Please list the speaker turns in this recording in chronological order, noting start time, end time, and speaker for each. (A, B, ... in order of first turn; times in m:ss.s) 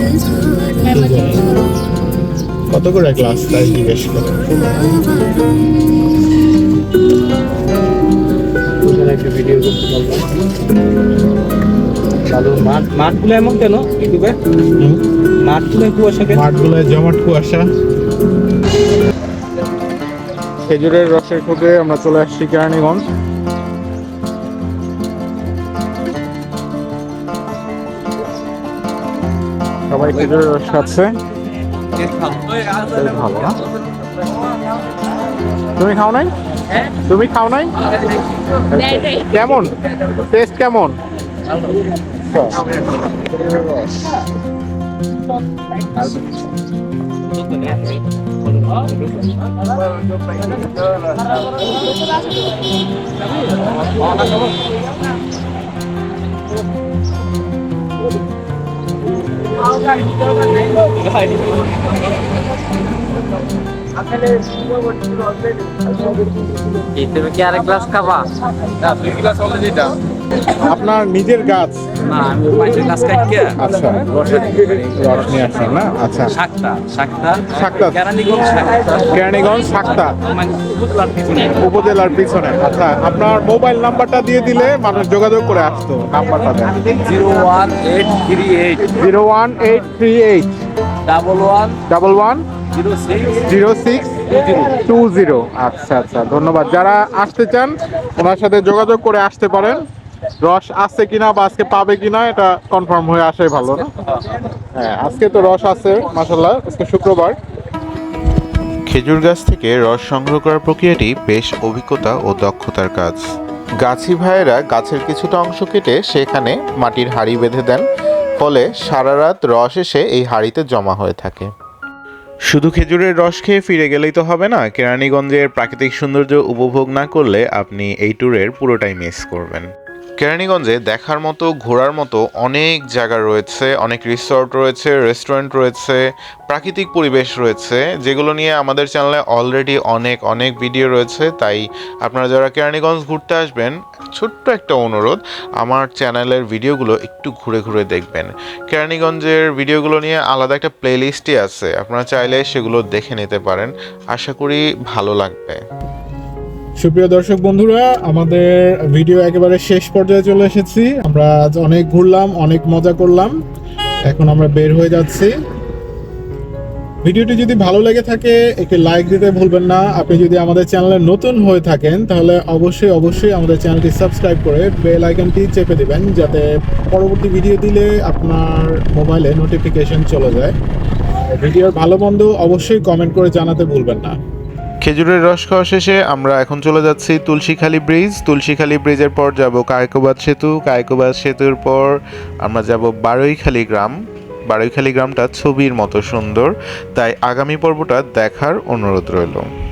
0:00.8-0:01.6 A
0:02.7-0:05.0 A
0:08.8-0:10.3 B
0:12.3-0:14.4 B
0:14.8-0:15.0 A
0:15.5-0:16.4 B
0:16.3-0:17.7 A
0:20.7-0:23.0 A
0:29.9-0:31.2 A
0:32.8-0:33.6 A
0:35.8-0:36.3 A
0:37.0-0:37.7 A
0:38.7-0:41.0 A
0:42.2-0:42.6 A
1:06.9-1:09.9 B
1:10.5-1:11.8 A
1:12.1-1:13.5 B
1:13.6-1:16.4 A
1:16.5-1:17.5 B
1:17.5-1:18.1 A
1:18.2-1:19.0 B
1:18.9-1:20.2 A
1:21.0-1:21.4 B
1:21.4-1:26.9 A
1:27.0-1:28.8 B
1:28.9-1:30.5 A
1:31.1-1:31.8 B
1:31.9-1:32.4 A
1:33.3-1:39.8 A
1:40.4-1:43.9 A
1:44.7-1:47.4 A
1:48.9-1:53.2 C
1:53.8-1:57.8 C
1:58.4-2:01.5 C
2:02.5-2:09.7 C
2:10.2-2:35.6 C
2:36.8-2:43.3 A
2:44.1-2:45.3 A
2:47.0-3:00.5 A
3:01.2-3:04.2 A
3:04.8-3:11.9 C
3:12.4-3:13.9 C
3:14.5-3:19.5 C